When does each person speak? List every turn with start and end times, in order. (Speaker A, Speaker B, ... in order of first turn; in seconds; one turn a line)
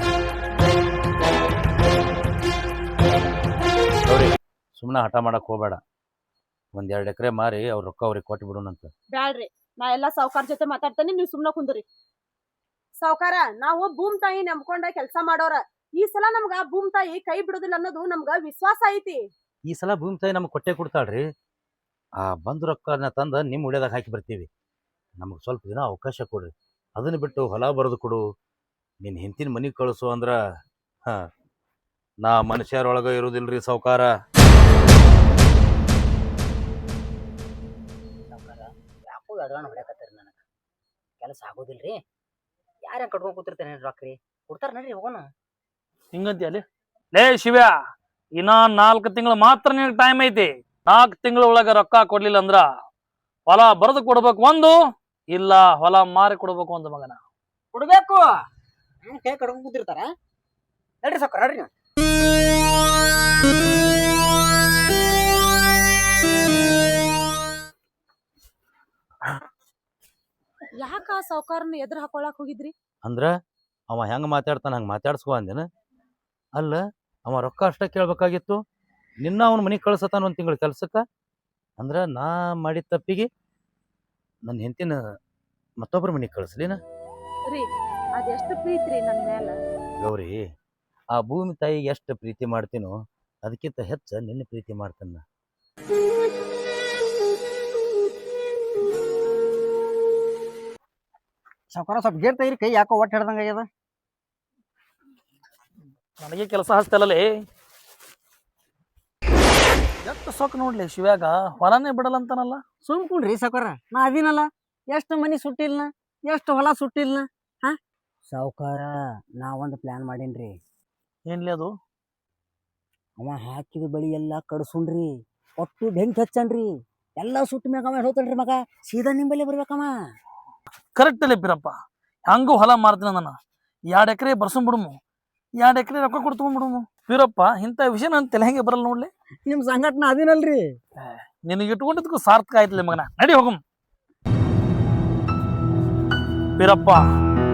Speaker A: 4.1-5.8
Speaker A: 6.7-8.9
Speaker B: 9.1-11.8
Speaker B: 13.0-19.2
Speaker A: 19.7-21.2
Speaker A: 22.2-24.5
Speaker A: 25.2-28.2
Speaker A: 29.0-30.4
Speaker A: 32.2-34.1
Speaker C: 38.3-40.4
Speaker C: 41.2-42.0
Speaker C: 42.9-45.3
Speaker D: 46.1-47.7
Speaker D: 48.4-52.7
Speaker D: 53.5-54.8
Speaker D: 55.3-57.2
Speaker C: 57.7-58.3
Speaker C: 59.0-60.1
Speaker C: 61.0-61.7
Speaker B: 70.8-72.7
Speaker A: 73.0-73.3
Speaker A: 73.9-75.7
Speaker A: 76.6-78.6
Speaker A: 79.2-81.0
Speaker A: 81.8-83.3
Speaker A: 84.5-85.0
Speaker A: 85.8-86.8
Speaker B: 87.5-89.6
Speaker A: 90.0-90.4
Speaker A: 91.1-92.9
Speaker A: 93.5-95.2
Speaker C: 101.7-103.7
Speaker D: 106.2-107.5
Speaker D: 110.0-112.6
Speaker C: 112.8-117.8
Speaker C: 118.3-120.6
Speaker D: 121.3-121.7
Speaker C: 123.2-129.9
Speaker D: 130.9-131.8
Speaker D: 132.3-133.4
Speaker D: 133.9-134.9
Speaker D: 135.6-139.1
Speaker C: 139.5-140.6
Speaker D: 141.0-143.6
Speaker D: 146.6-147.0